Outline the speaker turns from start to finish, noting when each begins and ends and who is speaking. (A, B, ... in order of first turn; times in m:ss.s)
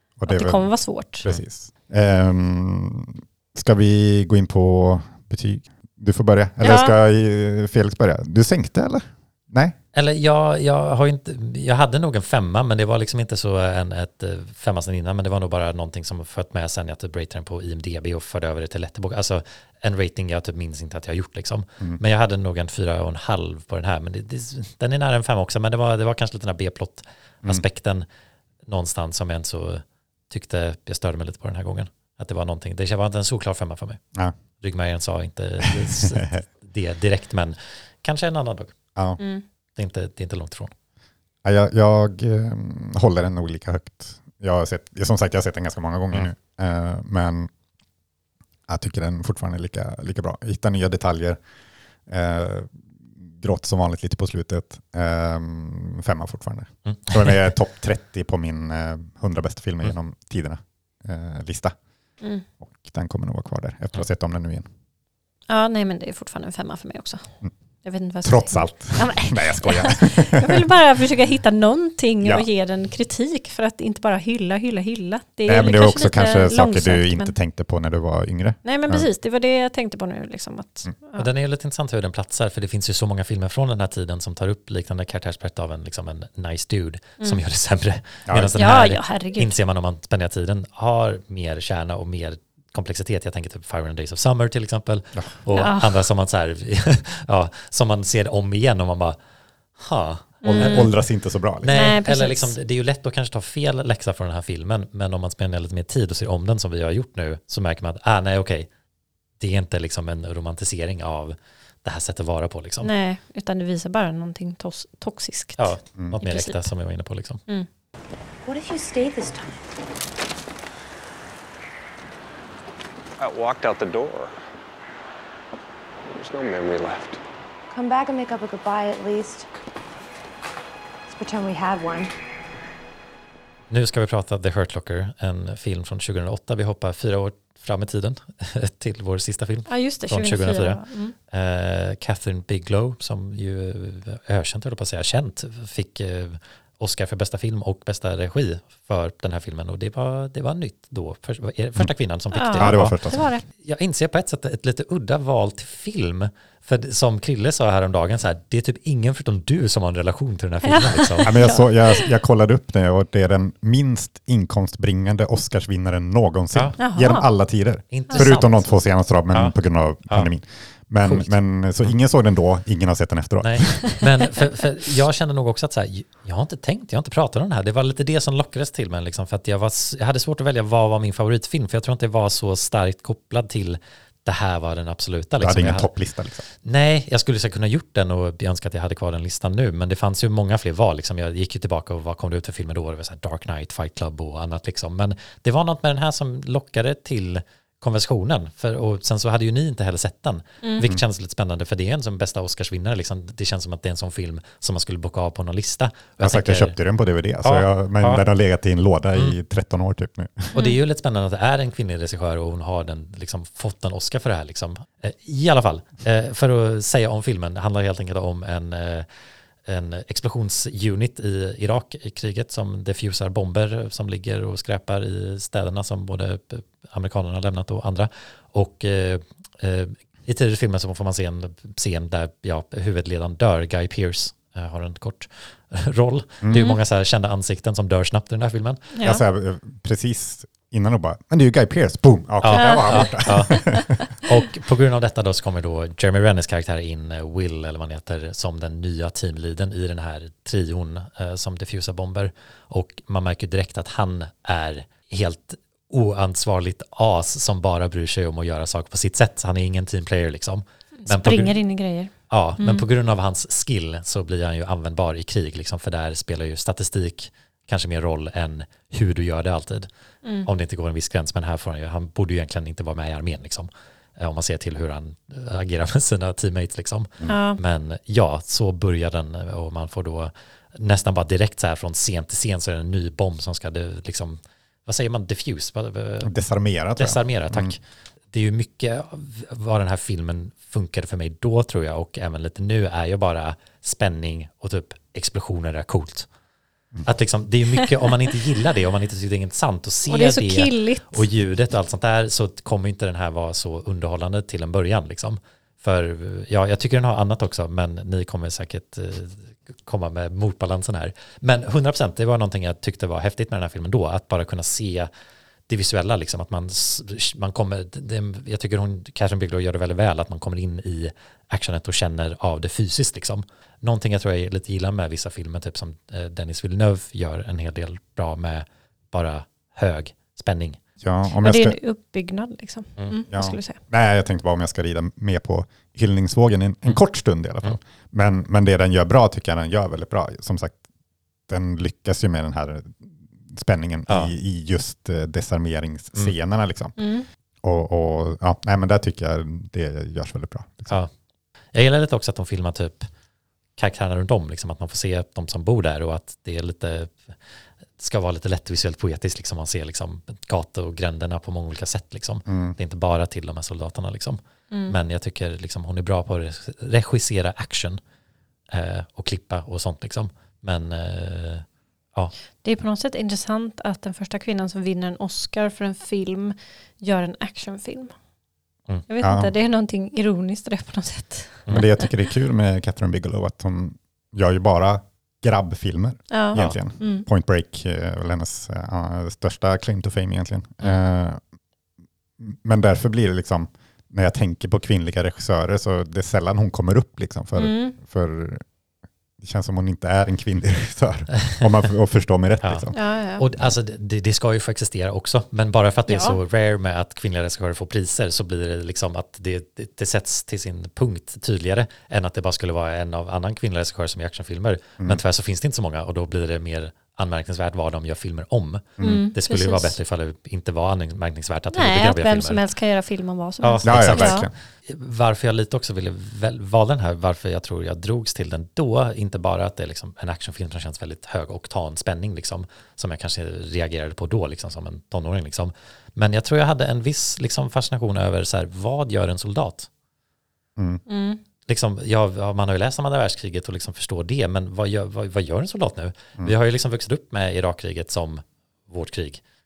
0:00.2-0:00.7 A
0:00.3-0:01.2 B
0:01.2-0:09.8 A
0:06.6-0:06.9 B
0:09.9-0:28.0 C
0:28.6-0:34.0 C
0:34.6-0:38.7 C
0:35.8-0:36.0 A
0:39.2-0:39.4 B
0:39.8-0:40.7 C
0:41.4-0:47.5 A
0:48.7-0:51.4 A
0:52.1-1:01.7 A
0:56.9-0:57.5 C
1:02.6-1:04.7 A
1:05.5-1:07.2 B
1:07.8-1:17.3 B
1:08.2-1:10.7 A
1:15.4-1:19.1 A
1:18.6-1:21.3 B
1:21.2-1:39.2 C
1:28.6-1:29.5 B
1:35.6-1:35.9 B
1:39.8-1:40.9 C
1:40.4-1:40.9 B
1:40.4-1:41.7 A
1:41.6-1:48.7 C
1:41.7-1:42.5 B
1:49.4-1:52.9 C
1:52.8-1:56.7 B
1:55.6-1:57.4 C
1:58.4-1:59.5 D
2:03.2-2:04.4 E
2:06.1-2:07.2 E
2:07.7-2:09.4 D
2:11.1-2:12.1 D
2:13.7-2:41.3 C
2:19.7-2:21.1 B
2:32.3-2:33.4 B
2:32.6-2:33.3 A
2:40.7-2:42.1 B
2:41.2-2:54.0 A
2:46.8-2:47.3 B
2:47.9-2:48.7 C
2:51.0-2:51.3 C
2:53.4-3:05.9 C
3:05.4-3:06.4 A
3:06.6-3:26.7 C
3:26.2-3:30.5 A
3:27.4-3:28.2 C
3:30.5-3:39.1 C
3:39.6-3:59.0 C
3:56.4-3:56.8 A
3:58.9-3:59.2 B
3:59.0-4:04.0 A
4:02.4-4:03.6 C
4:02.5-4:03.8 B
4:04.2-4:21.6 C
4:21.0-4:22.9 B
4:22.3-4:29.9 C
4:30.4-4:46.3 C
4:37.3-4:37.6 B
4:46.2-4:47.8 A
4:47.0-4:47.8 C
4:48.3-4:56.3 C
4:57.0-5:15.1 C
5:00.1-5:01.2 B
5:15.7-5:30.8 C
5:31.0-5:31.8 A
5:31.4-5:33.8 B
5:33.3-5:40.8 A
5:41.5-5:47.0 A
5:47.0-5:47.3 B
5:47.6-5:51.0 A
5:51.7-5:53.1 C
5:53.8-5:57.3 C
5:58.0-6:08.0 C
6:02.5-6:02.8 A
6:04.7-6:05.0 B
6:08.7-6:12.3 C
6:12.6-6:18.1 B
6:19.1-6:21.6 B
6:19.2-6:19.5 A
6:21.7-6:31.4 A
6:26.3-6:27.2 B
6:32.4-6:38.6 A
6:37.6-6:38.0 B
6:39.4-6:43.0 A
6:42.9-6:43.4 B
6:43.4-7:02.6 C
6:46.1-6:46.4 B
6:59.0-6:59.2 A
6:59.0-7:00.0 B
7:01.7-7:04.5 B
7:03.6-7:19.9 C
7:03.8-7:04.5 A
7:21.1-7:21.4 B
7:21.7-7:29.4 C